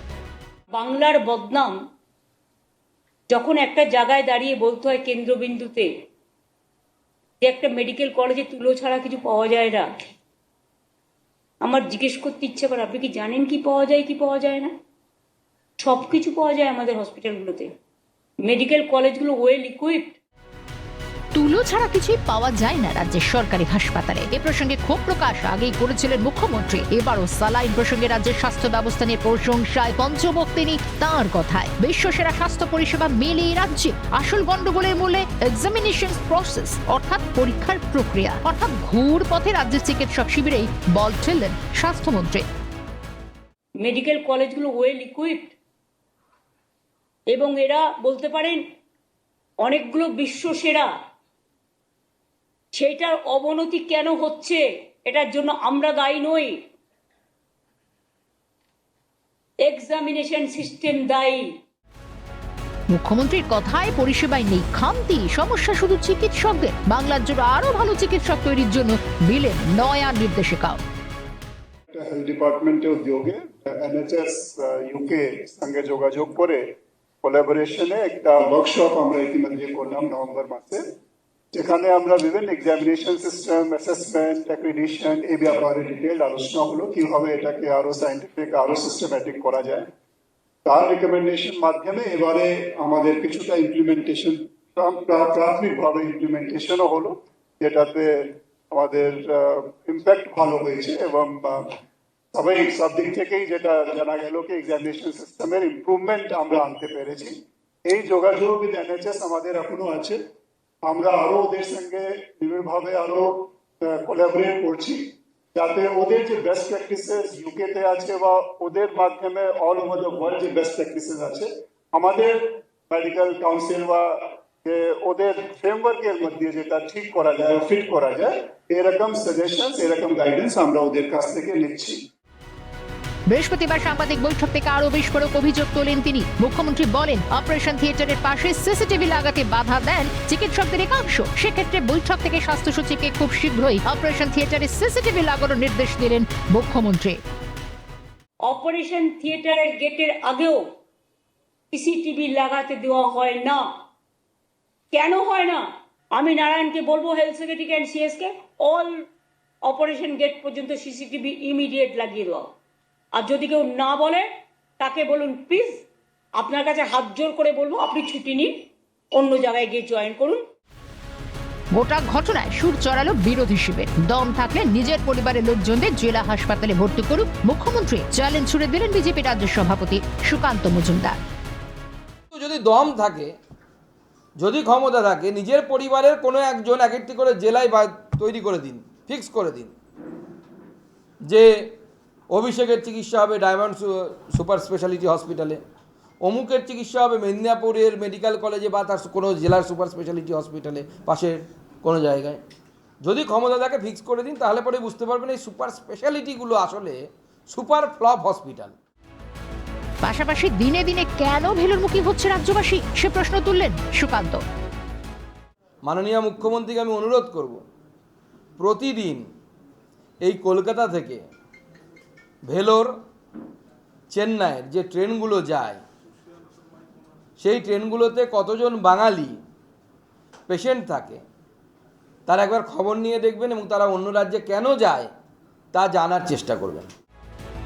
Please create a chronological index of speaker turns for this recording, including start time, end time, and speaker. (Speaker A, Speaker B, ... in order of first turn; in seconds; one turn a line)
Speaker A: 0.7-1.8
Speaker A: 3.3-5.9
Speaker A: 7.4-9.9
Speaker A: 11.6-14.7
Speaker A: 15.8-17.7
Speaker A: 18.4-20.2
Speaker B: 21.3-42.4
Speaker A: 43.8-45.5
Speaker A: 47.3-48.6
Speaker A: 49.6-50.9
Speaker A: 52.7-56.6
Speaker A: 59.6-61.5
Speaker B: 62.9-70.8
Speaker C: 71.9-76.7
Speaker C: 77.2-80.8
Speaker C: 81.5-89.9
Speaker C: 90.6-101.8
Speaker C: 102.3-107.3
Speaker C: 107.8-110.2
Speaker C: 110.8-115.0
Speaker C: 115.5-132.0
Speaker B: 133.3-147.2
Speaker A: 148.4-150.6
Speaker A: 151.7-153.7
Speaker A: 154.9-159.0
Speaker A: 159.6-162.5
Speaker A: 163.2-165.8
Speaker A: 166.4-170.4
Speaker B: 171.7-181.2
Speaker D: 182.3-183.3
Speaker D: 184.4-189.7
Speaker D: 191.2-191.7
Speaker D: 192.3-195.6
Speaker D: 196.2-202.4
Speaker D: 203.0-208.8
Speaker B: 210.0-214.4
Speaker D: 215.8-217.6
Speaker D: 218.6-219.3
Speaker D: 220.2-221.2
Speaker D: 222.5-222.9
Speaker D: 224.1-225.8
Speaker D: 227.4-229.4
Speaker D: 230.5-231.2
Speaker D: 232.3-235.1
Speaker D: 235.7-236.9